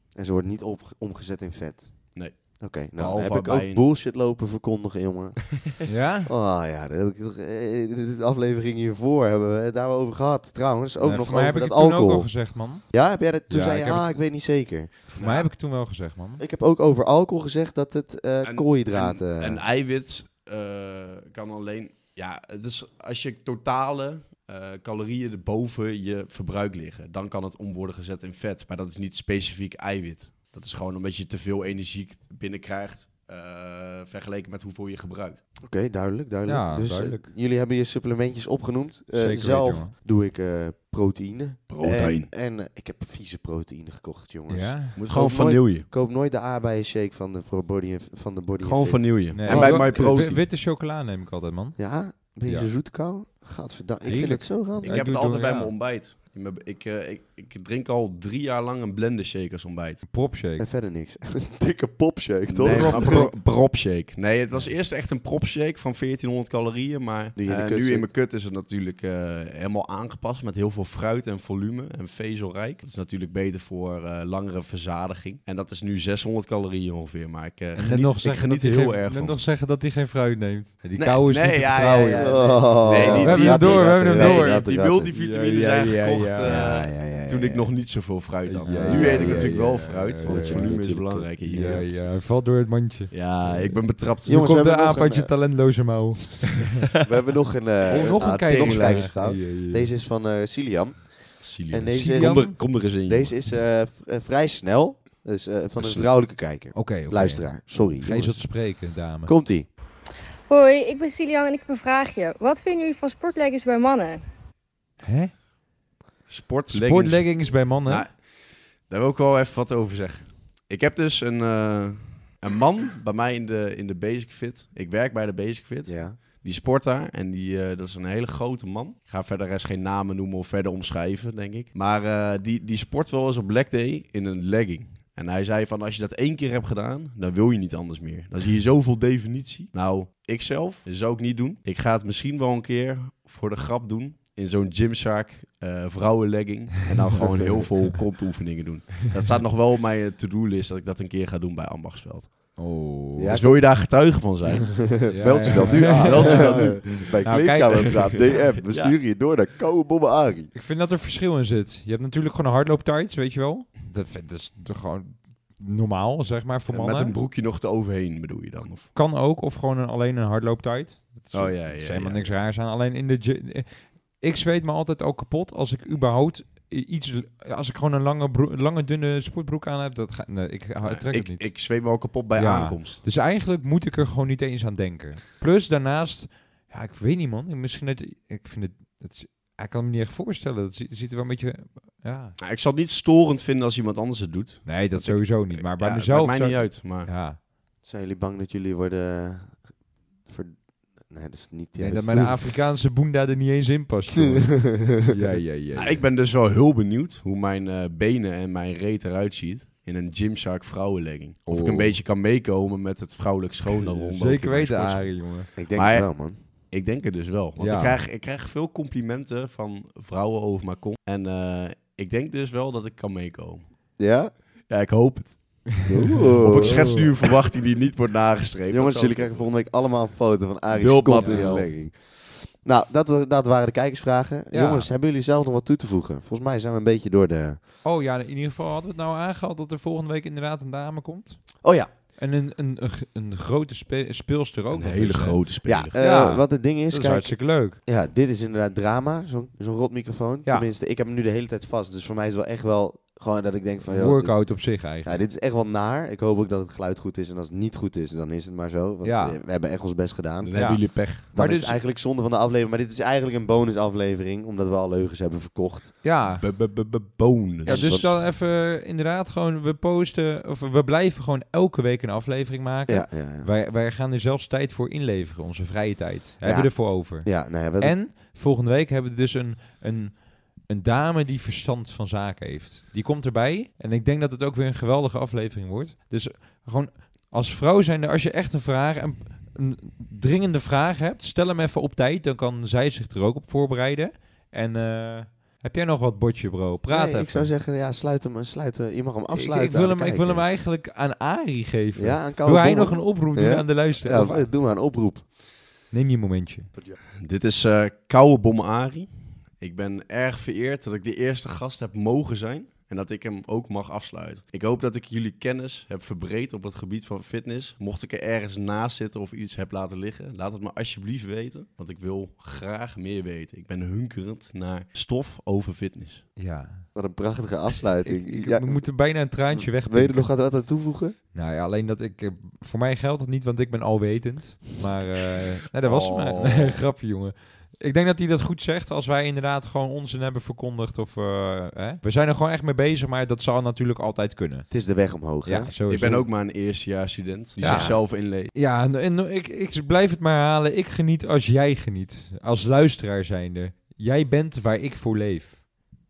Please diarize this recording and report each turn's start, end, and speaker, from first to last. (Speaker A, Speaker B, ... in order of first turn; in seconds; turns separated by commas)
Speaker A: 0.1-12.3, Speaker B: 2.1-3.8, Speaker C: 5.9-6.3, Speaker C: 11.0-12.9, Speaker A: 12.9-15.1, Speaker C: 13.5-14.3, Speaker C: 15.1-16.4, Speaker B: 15.2-15.5, Speaker A: 16.4-19.6, Speaker B: 18.4-35.4, Speaker A: 35.6-50.3, Speaker C: 36.5-37.3, Speaker C: 39.1-39.9, Speaker B: 41.7-42.3, Speaker C: 44.5-45.0, Speaker B: 45.0-45.9, Speaker B: 48.6-50.4, Speaker C: 49.3-52.7, Speaker A: 51.8-55.0, Speaker C: 54.0-55.7, Speaker B: 54.1-60.0, Speaker C: 60.1-60.7, Speaker A: 60.6-63.3, Speaker B: 62.5-79.4, Speaker C: 62.6-63.3, Speaker A: 67.4-68.1, Speaker C: 77.8-86.6, Speaker B: 81.0-92.2, Speaker A: 82.2-85.1, Speaker A: 86.4-87.7, Speaker C: 88.5-90.8, Speaker A: 88.6-92.0, Speaker C: 91.5-93.7, Speaker B: 93.1-94.4, Speaker A: 94.2-95.3, Speaker C: 94.2-96.8, Speaker A: 97.0-109.7, Speaker B: 97.9-99.2, Speaker C: 97.9-99.9, Speaker B: 101.4-103.4, Speaker C: 101.9-102.6, Speaker B: 105.8-106.1, Speaker C: 106.8-109.3, Speaker D: 110.5-114.2, Speaker C: 115.0-115.3, Speaker B: 116.3-152.6, Speaker C: 116.7-118.1, Speaker A: 125.9-126.2, Speaker A: 147.2-147.6, Speaker C: 152.6-153.4, Speaker A: 153.2-154.1, Speaker B: 153.3-157.7, Speaker A: 155.0-160.5, Speaker C: 155.1-158.3, Speaker B: 158.3-159.0, Speaker C: 160.6-167.2, Speaker B: 166.7-168.9, Speaker C: 168.9-181.7, Speaker B: 171.3-172.3, Speaker B: 180.8-183.0, Speaker C: 182.3-192.4, Speaker B: 192.4-197.1, Speaker C: 194.7-197.4, Speaker A: 197.8-199.7, Speaker A: 200.2-202.5, Speaker C: 201.8-206.0, Speaker A: 204.2-205.1, Speaker B: 205.7-223.7, Speaker C: 211.5-212.0, Speaker C: 213.9-215.5, Speaker A: 215.6-216.4, Speaker C: 217.6-218.0, Speaker A: 224.0-224.3, Speaker B: 224.7-225.7, Speaker A: 225.8-227.1, Speaker C: 226.0-227.1, Speaker B: 226.4-229.5, Speaker A: 228.7-237.6, Speaker B: 230.8-231.7, Speaker C: 231.2-231.6, Speaker C: 234.5-234.9, Speaker C: 237.8-247.8, Speaker A: 241.6-241.9, Speaker B: 244.7-246.0, Speaker A: 245.7-266.0, Speaker C: 253.9-255.2, Speaker C: 259.0-259.4, Speaker B: 260.4-261.3, Speaker C: 260.6-261.8, Speaker C: 266.0-266.5, Speaker B: 266.4-268.2, Speaker A: 267.6-268.2, Speaker C: 267.7-297.5, Speaker A: 272.9-273.5, Speaker A: 276.4-278.0, Speaker A: 296.9-300.4, Speaker C: 299.3-304.5, Speaker A: 302.0-305.2, Speaker C: 305.9-306.7, Speaker B: 307.2-326.2, Speaker C: 326.4-326.9, Speaker A: 326.9-328.9, Speaker C: 328.0-330.4, Speaker A: 329.5-331.2, Speaker C: 331.3-344.8, Speaker B: 335.8-336.8, Speaker A: 344.7-346.2, Speaker C: 345.4-346.2, Speaker B: 345.9-348.5, Speaker A: 347.6-348.0, Speaker C: 347.6-355.6